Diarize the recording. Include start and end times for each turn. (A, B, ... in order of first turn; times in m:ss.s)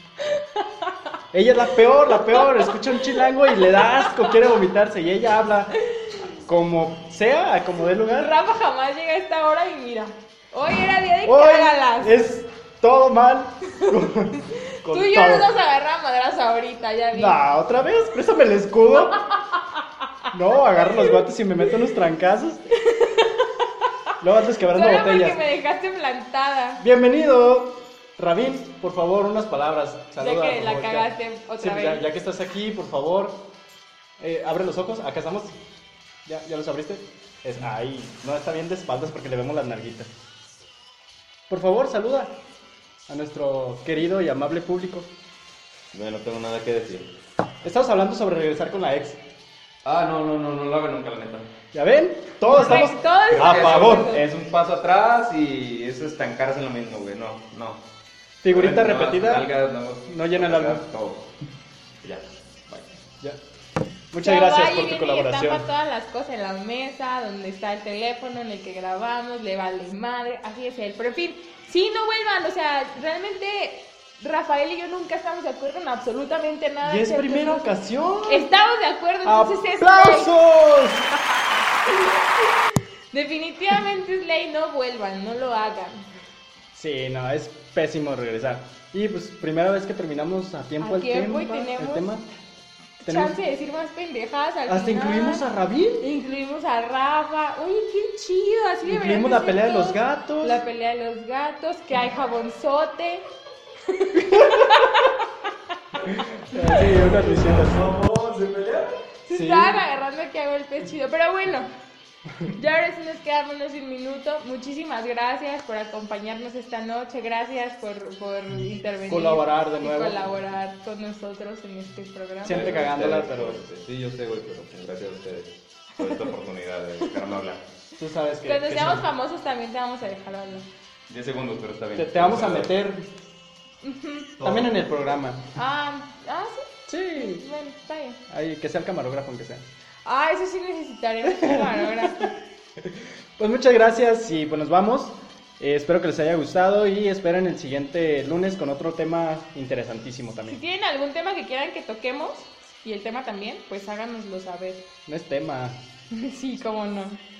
0:00.2-0:01.1 A
0:01.3-0:05.7 B
0:01.8-0:04.5 A
0:05.8-0:06.2 A
0:06.4-0:08.3 B
0:08.1-0:12.2 A
0:11.2-0:15.5 B
0:14.8-0:17.4 A
0:17.1-0:19.2 B
0:18.9-0:21.7 A
0:20.3-0:22.6 B
0:22.8-0:26.8 A
0:24.2-0:25.4 B
0:26.8-0:33.5 B
0:30.2-0:32.0 A
0:34.2-0:35.6 B
0:36.2-0:40.1 B
0:41.5-0:42.4 B
0:43.1-0:45.1 B
0:45.9-0:47.1 C
0:47.6-0:49.2 B
0:49.8-0:51.5 C
0:51.7-0:54.2 B
0:52.4-0:54.3 A
0:52.5-0:57.8 C
0:58.4-0:59.5 B
0:58.4-1:01.2 C
1:00.0-1:00.8 B
1:02.0-1:02.9 C
1:04.1-1:05.7 B
1:04.2-1:17.7 A
1:16.8-1:18.5 B
1:18.3-1:20.3 A
1:19.2-1:21.1 B
1:21.7-1:26.0 A
1:26.7-1:32.3 B
1:30.8-1:32.1 A
1:33.0-1:35.4 A
1:33.0-1:33.4 B
1:34.7-1:36.0 B
1:36.0-1:43.2 A
1:38.8-1:40.6 B
1:43.9-1:45.5 A
1:46.5-1:47.9 B
1:46.5-1:47.1 A
1:47.2-1:48.9 C
1:49.2-1:51.7 A
1:49.3-1:49.8 B
1:52.5-2:02.8 A
1:59.0-2:00.2 B
2:02.4-2:03.6 B
2:02.4-2:07.6 C
2:06.0-2:06.3 A
2:08.0-2:09.0 B
2:08.4-2:10.7 A
2:11.1-2:12.7 C
2:11.9-2:13.0 B
2:13.8-2:14.3 A
2:14.4-2:14.7 C
2:14.4-2:15.4 B
2:15.5-2:18.2 A
2:16.9-2:17.4 B
2:18.3-2:19.6 B
2:20.0-2:22.3 A
2:21.2-2:22.2 B
2:22.8-2:30.6 B
2:30.5-2:34.8 A
2:35.1-2:35.8 B
2:36.1-2:37.2 A